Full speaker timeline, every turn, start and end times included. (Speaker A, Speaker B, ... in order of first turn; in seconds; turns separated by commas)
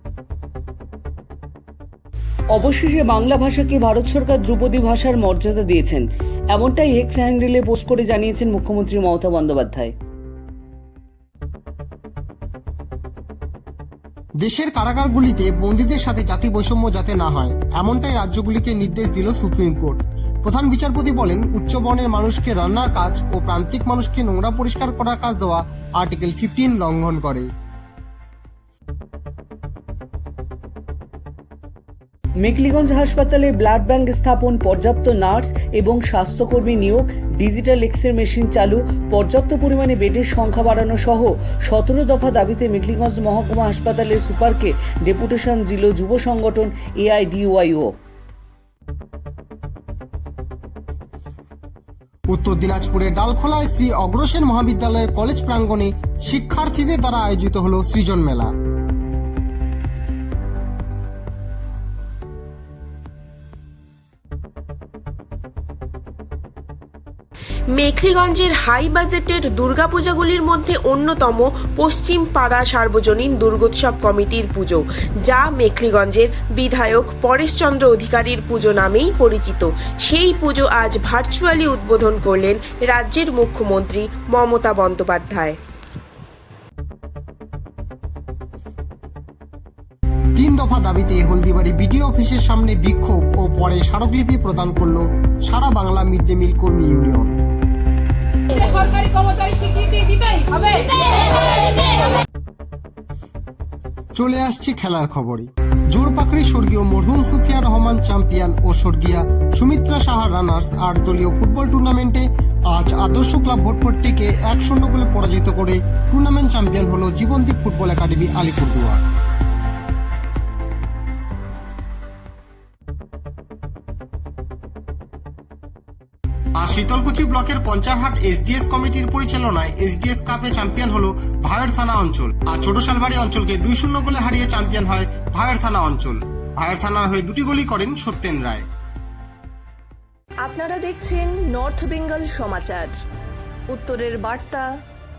Speaker A: 2.5-9.9, Speaker B: 14.4-27.5, Speaker A: 32.4-47.9, Speaker B: 52.3-58.5, Speaker C: 67.7-85.6, Speaker B: 90.3-97.4, Speaker B: 104.2-119.0, Speaker B: 126.6-138.7, Speaker D: 140.4-142.9, Speaker D: 143.7-144.7